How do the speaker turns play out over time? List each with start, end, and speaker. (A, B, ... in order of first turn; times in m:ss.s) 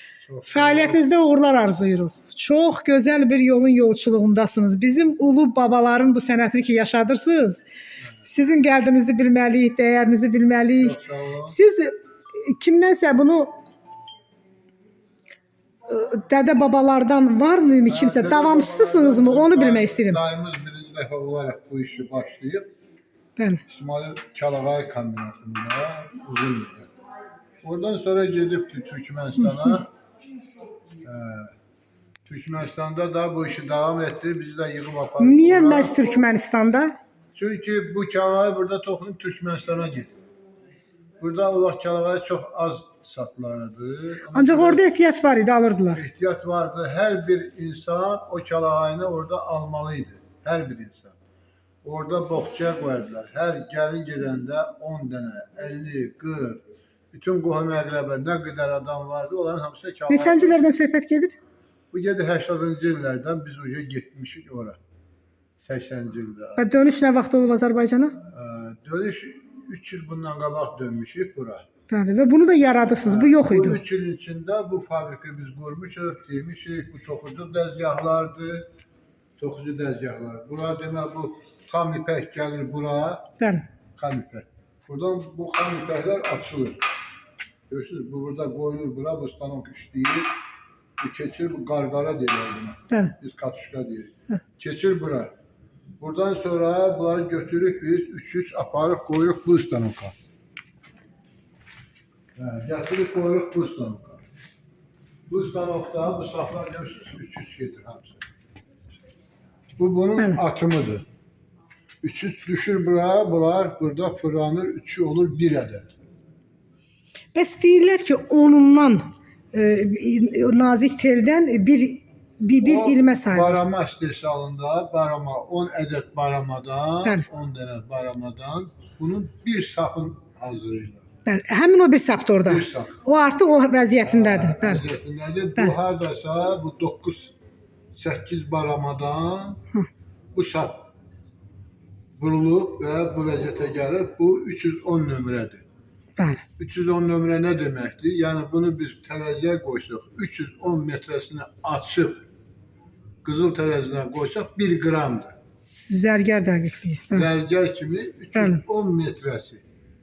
0:00.2-0:01.0 A
0:00.5-0:07.6 B
0:08.2-0:13.5 B
0:10.8-0:11.6 A
0:15.9-0:20.2 B
0:17.9-0:22.7 A
0:23.4-0:23.6 B
0:23.7-0:26.9 A
0:27.6-0:29.9 A
0:29.4-0:29.8 B
0:31.0-0:31.5 A
0:32.2-0:36.2 A
0:35.2-0:37.0 B
0:37.3-0:40.1 A
0:41.2-0:44.8 A
0:44.3-0:46.0 B
0:45.9-0:51.2 A
0:51.8-1:00.6 A
1:00.1-1:01.4 B
1:01.9-1:04.8 A
1:05.6-1:06.6 A
1:06.6-1:08.2 B
1:08.2-1:11.6 A
1:11.9-1:13.8 B
1:13.0-1:18.6 A
1:19.4-1:23.3 A
1:23.4-1:23.6 B
1:23.9-1:26.8 A
1:27.7-1:30.3 A
1:31.0-1:35.3 A
1:36.0-1:40.1 A
1:42.4-1:44.2 A
1:45.3-1:48.2 A
1:49.8-1:51.0 A
1:52.0-1:55.9 A
1:57.3-2:03.5 B
2:02.6-2:11.1 A
2:11.2-2:14.8 B
2:12.4-2:13.0 A
2:14.0-2:17.3 A
2:17.9-2:19.6 A
2:20.3-2:20.9 A
2:22.2-2:25.6 A
2:26.2-2:26.4 B
2:26.6-2:32.2 A
2:33.2-2:35.4 A
2:35.9-2:37.3 B
2:37.1-2:39.6 A
2:38.4-2:38.6 B